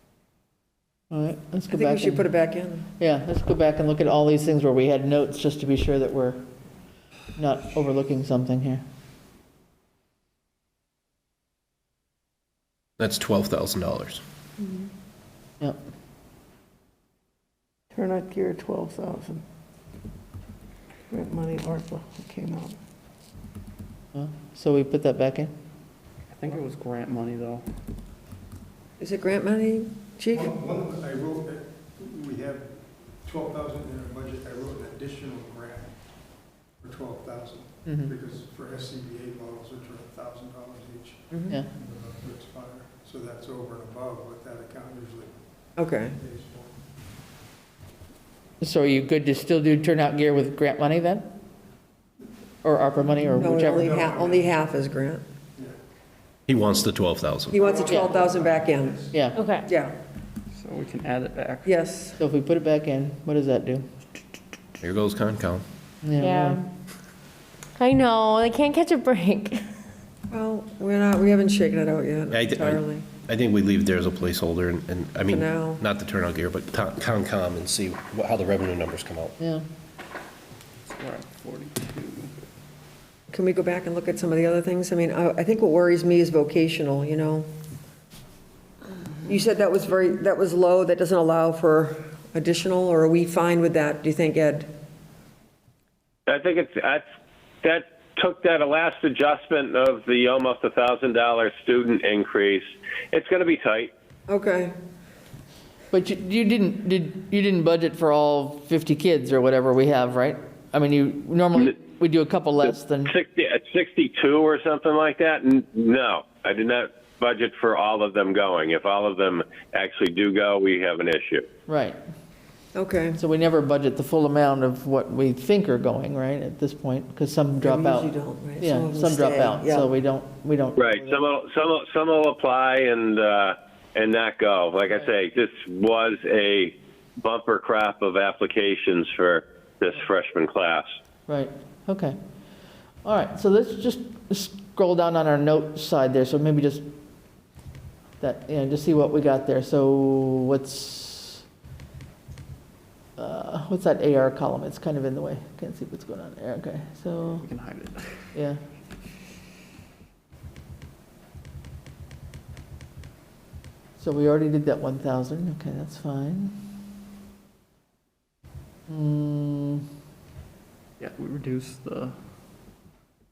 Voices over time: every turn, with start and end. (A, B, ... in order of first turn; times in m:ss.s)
0:01.1-0:02.3 A
0:01.7-0:02.9 B
0:03.0-0:06.4 A
0:07.4-0:08.8 A
0:13.0-0:14.2 C
0:17.9-0:19.4 D
0:21.1-0:22.8 D
0:24.1-0:25.5 A
0:26.3-0:27.7 E
0:29.0-0:30.5 B
0:30.3-0:36.0 F
0:36.8-0:45.3 F
0:37.8-0:38.1 A
0:45.8-0:46.2 B
0:46.1-0:46.8 F
0:48.6-0:51.3 A
0:52.6-0:54.0 A
0:53.4-0:55.2 B
0:53.4-0:54.6 F
0:56.5-0:57.6 C
0:57.5-0:59.0 B
0:57.5-0:59.3 F
0:57.8-0:58.1 A
0:59.1-0:59.4 A
0:59.4-0:59.7 G
0:59.6-0:59.9 B
1:00.5-1:01.8 E
1:01.6-1:02.2 B
1:02.2-1:03.8 A
1:04.8-1:05.6 C
1:06.0-1:06.6 A
1:06.2-1:06.6 G
1:07.8-1:09.8 G
1:10.3-1:13.0 B
1:12.3-1:19.4 C
1:15.3-1:15.8 B
1:19.4-1:19.6 A
1:20.8-1:22.3 E
1:23.3-1:27.5 B
1:29.2-1:34.7 B
1:36.3-1:37.0 H
1:37.6-1:43.9 H
1:44.3-1:44.7 B
1:45.9-1:53.1 A
1:53.1-2:01.4 H
2:01.7-2:02.0 A
2:02.7-2:03.2 B
2:03.1-2:11.2 A
2:07.6-2:09.9 B
2:10.8-2:20.8 H
2:21.3-2:22.2 A
2:23.0-2:26.8 A
2:28.2-2:31.4 A
2:33.2-2:37.4 A
2:37.4-2:38.3 E
2:38.3-2:38.6 A
2:44.0-2:46.5 A
2:48.9-2:49.8 A
2:51.0-2:52.2 E